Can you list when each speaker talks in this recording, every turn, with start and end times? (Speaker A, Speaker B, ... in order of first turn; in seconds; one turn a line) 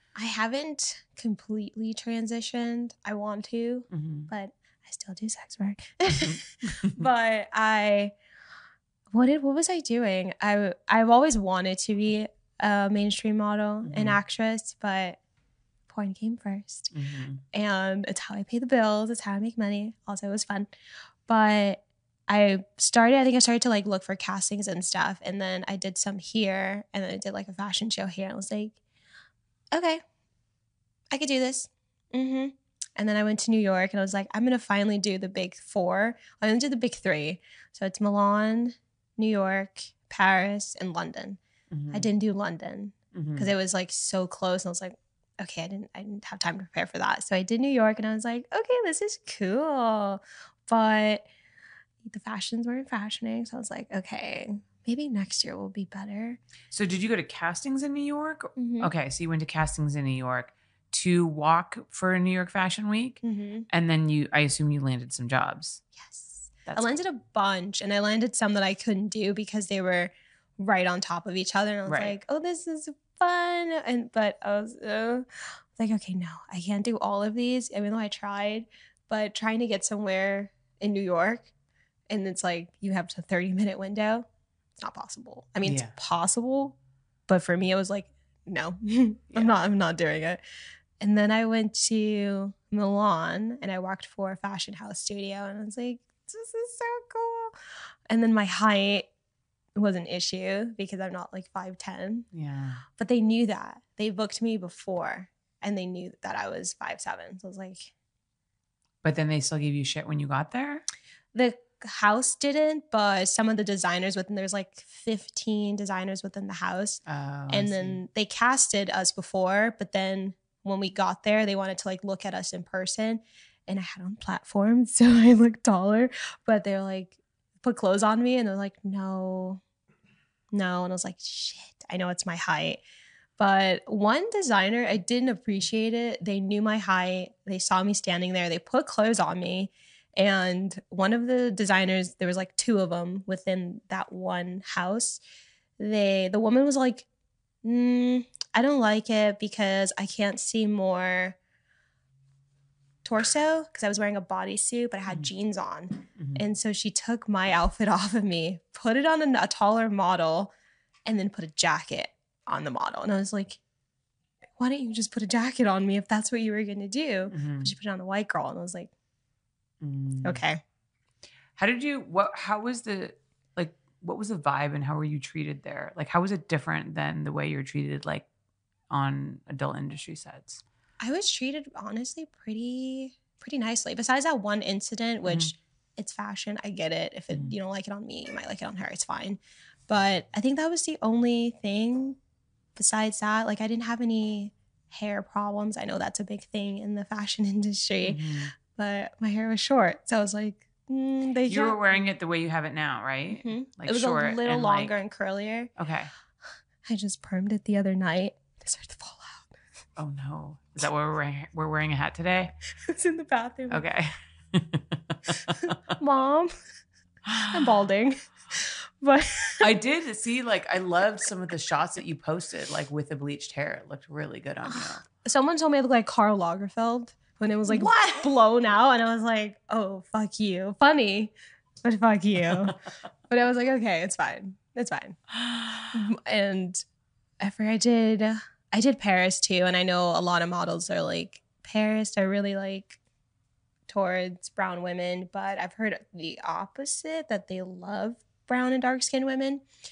Speaker A: 0.2-8.2
Speaker B: 3.9-4.3
Speaker B: 6.3-7.0
Speaker A: 9.1-15.2
Speaker B: 13.8-14.2
Speaker A: 15.9-16.9
Speaker B: 16.9-17.4
Speaker A: 17.5-20.7
Speaker A: 21.3-28.8
Speaker A: 29.7-30.0
Speaker A: 31.1-41.4
Speaker B: 41.7-42.1
Speaker A: 41.9-51.3
Speaker B: 43.1-43.5
Speaker A: 52.0-56.4
Speaker B: 56.7-65.8
Speaker A: 58.6-58.9
Speaker A: 63.2-63.7
Speaker A: 66.0-81.5
Speaker B: 66.7-67.0
Speaker B: 71.9-72.2
Speaker A: 82.1-84.3
Speaker A: 84.8-86.8
Speaker B: 85.6-85.9
Speaker A: 87.3-90.4
Speaker A: 91.0-97.5
Speaker A: 98.1-99.1
Speaker A: 99.8-102.3
Speaker B: 102.3-102.8
Speaker A: 103.0-107.9
Speaker B: 109.0-110.8
Speaker A: 111.3-129.6
Speaker B: 117.1-118.0
Speaker A: 130.5-132.8
Speaker A: 133.4-145.2
Speaker A: 145.8-147.1
Speaker A: 147.6-151.4
Speaker A: 153.0-160.5
Speaker A: 161.1-163.6
Speaker A: 164.6-168.9
Speaker B: 167.3-167.7
Speaker B: 169.8-170.4
Speaker A: 170.2-170.6
Speaker B: 171.6-178.3
Speaker B: 178.9-180.6
Speaker A: 181.0-192.2
Speaker A: 192.8-202.1
Speaker B: 198.0-198.5
Speaker B: 201.5-205.0
Speaker A: 203.3-205.7
Speaker B: 205.8-206.1
Speaker A: 206.8-209.5
Speaker B: 210.0-212.5
Speaker A: 212.9-213.8
Speaker B: 213.7-215.8
Speaker A: 215.9-216.5
Speaker B: 217.3-217.6
Speaker A: 217.5-219.6
Speaker B: 219.6-225.0
Speaker A: 224.6-231.3
Speaker A: 231.8-232.8
Speaker A: 233.3-235.2
Speaker B: 235.4-235.9
Speaker A: 235.9-236.8
Speaker A: 237.4-243.0
Speaker A: 243.9-249.6